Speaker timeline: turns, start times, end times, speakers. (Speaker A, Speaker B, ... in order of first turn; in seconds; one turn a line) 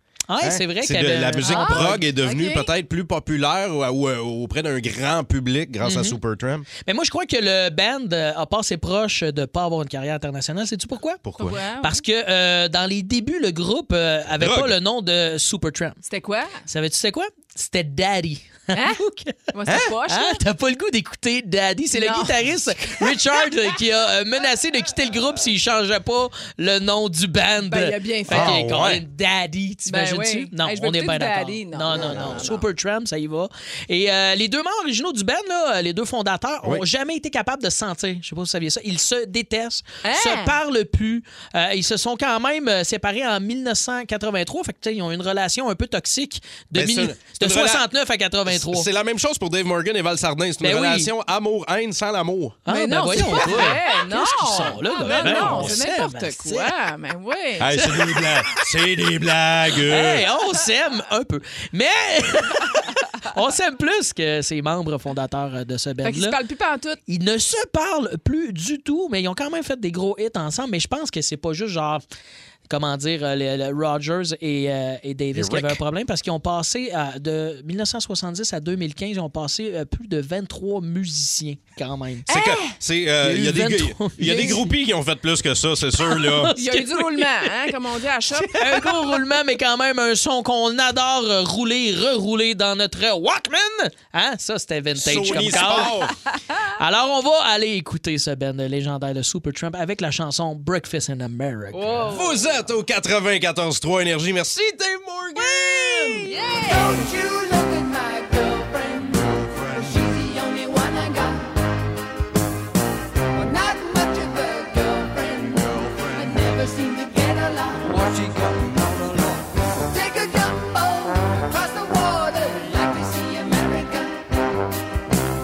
Speaker A: 0.3-2.0
Speaker B: 0.4-6.7
Speaker C: 1.4-2.7
Speaker A: 5.8-6.2
Speaker A: 6.8-11.2
Speaker B: 11.2-11.6
Speaker C: 11.4-12.0
Speaker A: 11.8-16.0
Speaker B: 14.4-14.8
Speaker C: 16.0-16.6
Speaker A: 16.7-48.9
Speaker C: 18.7-20.4
Speaker C: 21.9-22.4
Speaker C: 23.0-23.5
Speaker C: 27.6-28.6
Speaker B: 28.3-29.0
Speaker C: 29.9-32.6
Speaker B: 31.9-32.5
Speaker C: 40.0-40.6
Speaker B: 46.8-47.9
Speaker B: 48.5-52.6
Speaker A: 50.6-51.1
Speaker A: 52.7-56.7
Speaker C: 52.7-57.9
Speaker B: 53.2-53.6
Speaker B: 55.2-55.8
Speaker B: 57.6-60.3
Speaker A: 59.8-66.4
Speaker C: 66.0-67.0
Speaker A: 67.1-72.0
Speaker A: 72.7-82.3
Speaker B: 75.3-75.8
Speaker C: 82.3-82.8
Speaker B: 82.3-86.5
Speaker A: 83.2-84.7
Speaker A: 86.1-87.5
Speaker C: 86.6-88.8
Speaker A: 88.5-96.0
Speaker B: 95.0-96.1
Speaker A: 96.8-102.0
Speaker C: 101.7-102.4
Speaker B: 102.1-106.3
Speaker C: 106.0-107.0
Speaker D: 106.7-111.5
Speaker D: 113.3-118.0
Speaker D: 119.9-124.2